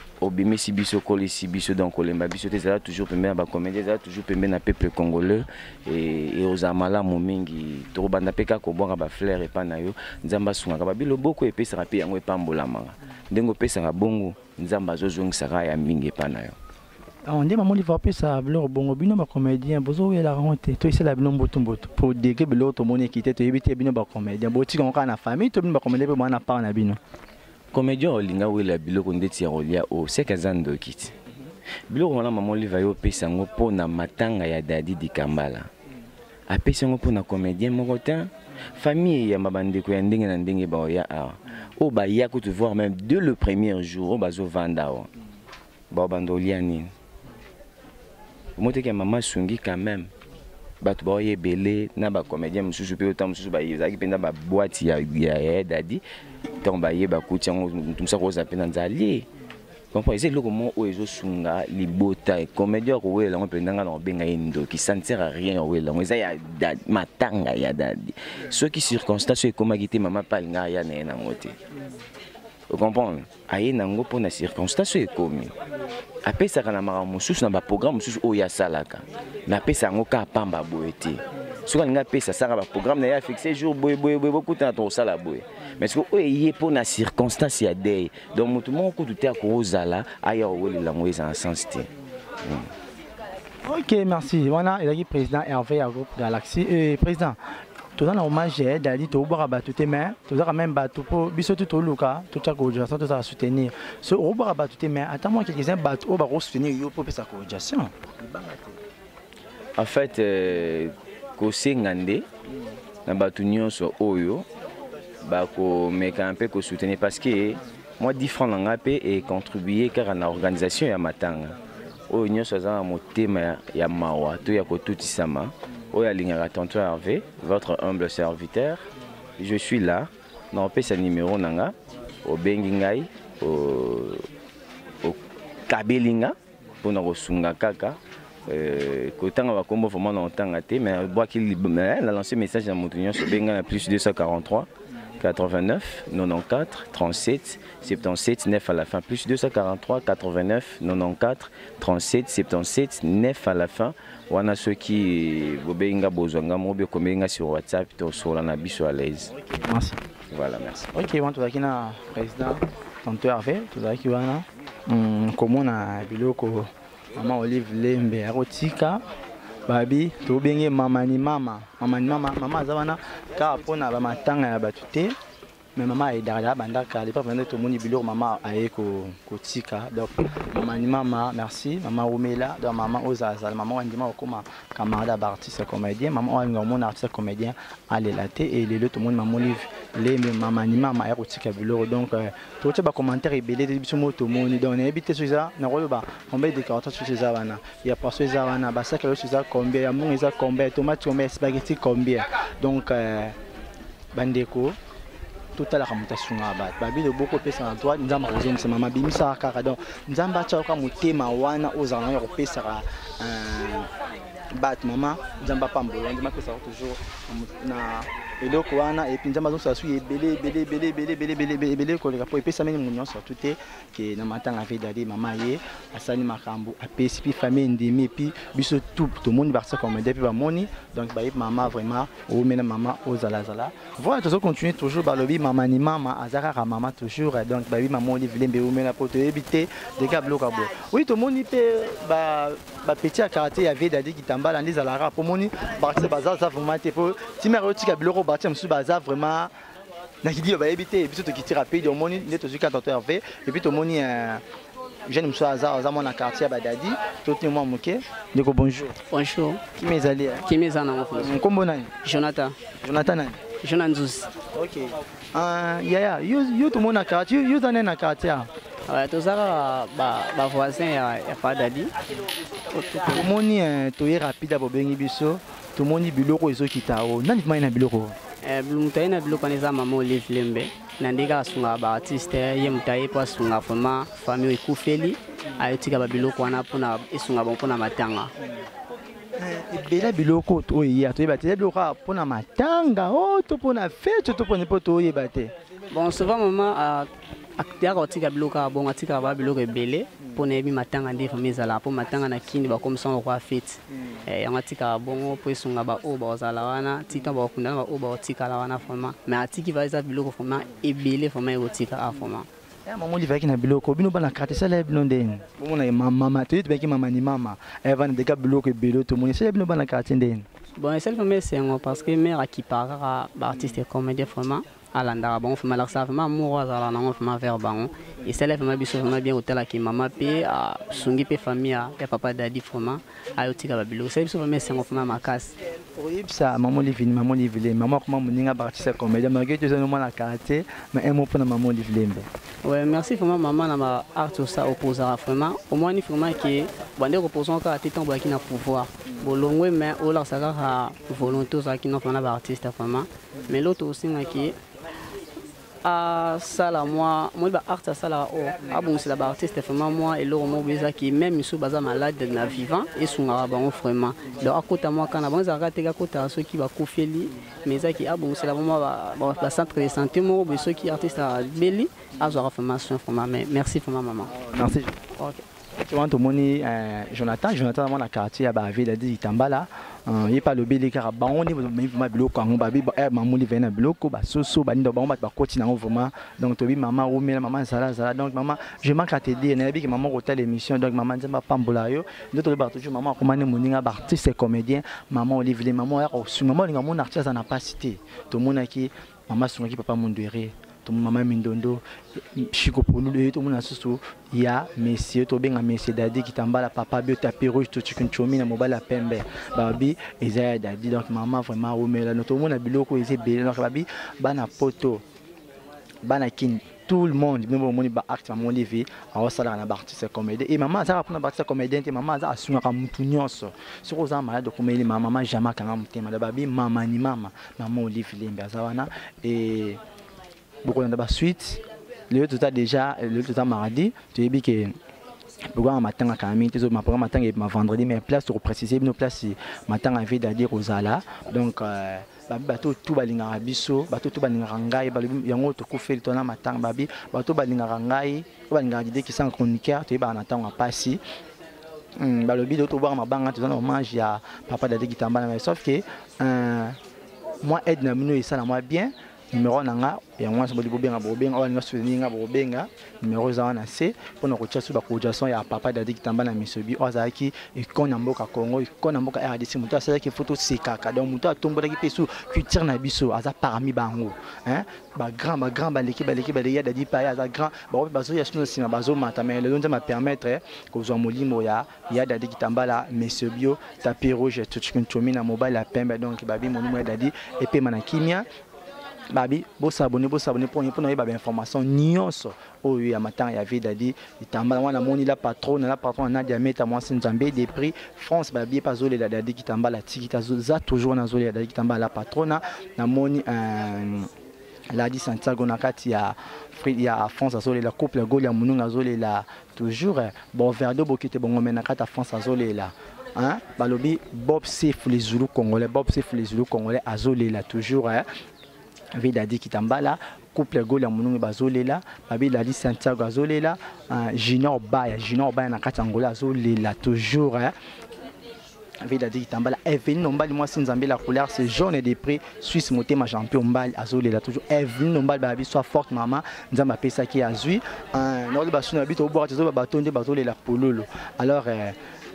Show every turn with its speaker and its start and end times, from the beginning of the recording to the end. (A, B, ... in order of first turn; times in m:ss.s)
0:00.2-0:16.6 A
0:17.2-0:27.0 B
0:27.7-0:31.1 A
0:31.9-0:35.7 A
0:36.5-0:45.1 A
0:45.9-0:46.9 A
0:48.6-0:50.1 A
0:50.8-0:56.0 A
0:56.6-0:59.2 A
0:59.9-1:11.6 A
1:12.7-1:15.5 A
1:16.3-1:31.9 A
1:32.4-1:32.7 A
1:33.6-1:37.4 B
1:38.0-1:48.8 B
1:49.8-1:52.2 A
1:53.1-1:54.4 A
1:55.2-2:01.6 A
2:02.1-2:08.8 A
2:09.4-2:11.7 A
2:12.2-2:14.2 A
2:15.0-2:39.3 A
2:39.6-2:40.0 B
2:40.3-2:40.9 A
2:40.9-2:49.0 B
2:49.6-2:55.1 B
2:55.8-3:23.4 B
3:24.1-3:24.8 B
3:25.6-3:33.9 B
3:34.6-4:09.5 B
4:10.2-4:14.4 B
4:15.1-4:19.0 B
4:19.1-4:19.6 C
4:19.8-4:20.5 B
4:20.4-4:21.4 C
4:21.2-4:21.9 B
4:22.0-4:22.5 C
4:22.8-4:23.4 B
4:23.6-4:24.3 C
4:24.5-4:28.5 B
4:28.9-4:31.9 C
4:32.7-4:33.3 C
4:33.1-4:38.2 B
4:38.4-4:48.3 C
4:49.4-4:55.5 B
4:55.9-5:12.5 C
5:12.8-5:20.4 B
5:20.8-5:35.6 C
5:36.0-5:42.3 B
5:42.6-5:54.6 C
5:55.8-6:14.3 C
6:14.2-6:15.0 B
6:15.2-6:15.4 C
6:15.8-6:55.0 B
6:56.0-7:09.8 B
7:10.6-7:14.7 B
7:15.5-7:31.0 B
7:32.0-7:36.8 B
7:37.4-8:08.2 B
8:09.1-8:24.1 B
8:24.7-8:38.1 B
8:39.0-8:47.5 B
8:48.8-9:01.8 B